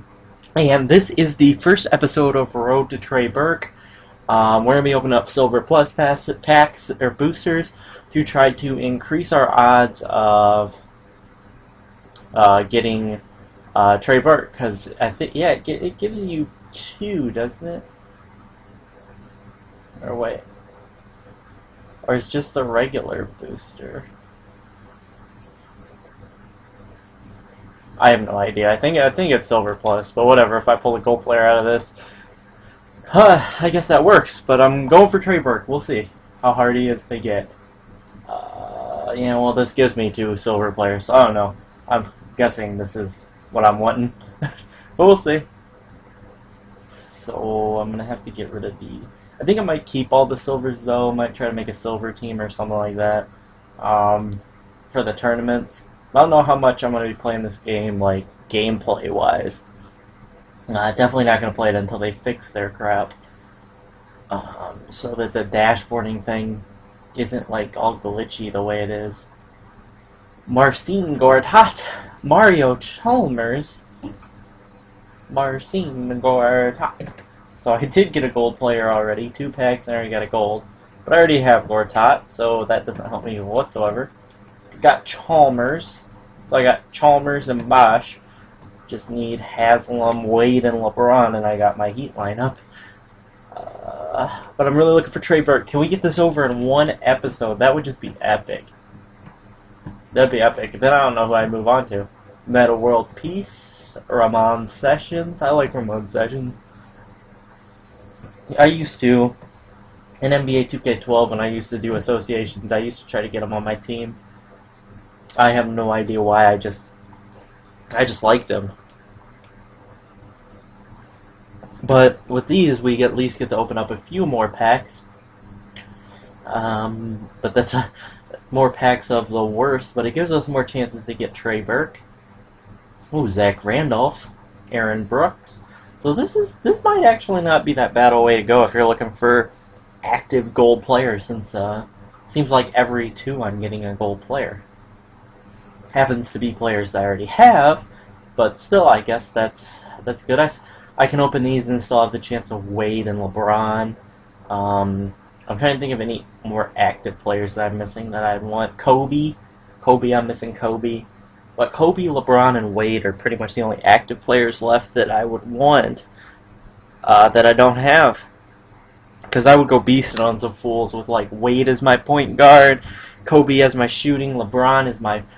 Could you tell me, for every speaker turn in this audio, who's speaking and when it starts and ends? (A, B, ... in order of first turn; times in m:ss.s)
0:00.6-0:03.7 A
0:04.3-0:10.7 A
0:12.3-0:13.2 A
0:13.7-0:17.8 A
0:20.0-0:20.4 A
0:22.1-0:24.1 A
0:28.0-0:31.9 A
0:33.1-0:37.5 A
0:38.3-0:44.2 A
0:45.0-0:45.5 A
0:46.9-0:53.3 A
0:53.8-0:59.6 A
1:00.7-1:03.1 A
1:04.3-1:09.3 A
1:10.5-1:13.8 A
1:15.3-1:17.0 A
1:17.6-1:24.1 A
1:24.8-1:28.2 A
1:28.9-1:32.6 A
1:33.5-1:38.7 A
1:40.1-1:46.6 A
1:48.5-1:49.4 A
1:50.2-1:54.2 A
1:55.4-1:56.9 A
1:57.9-1:58.7 A
2:01.8-2:05.0 A
2:06.4-2:07.9 A
2:08.5-2:12.0 A
2:13.1-2:19.5 A
2:20.0-2:24.6 A
2:25.9-2:34.0 A
2:34.5-2:46.0 A
2:47.0-2:48.2 A
2:49.3-2:55.2 A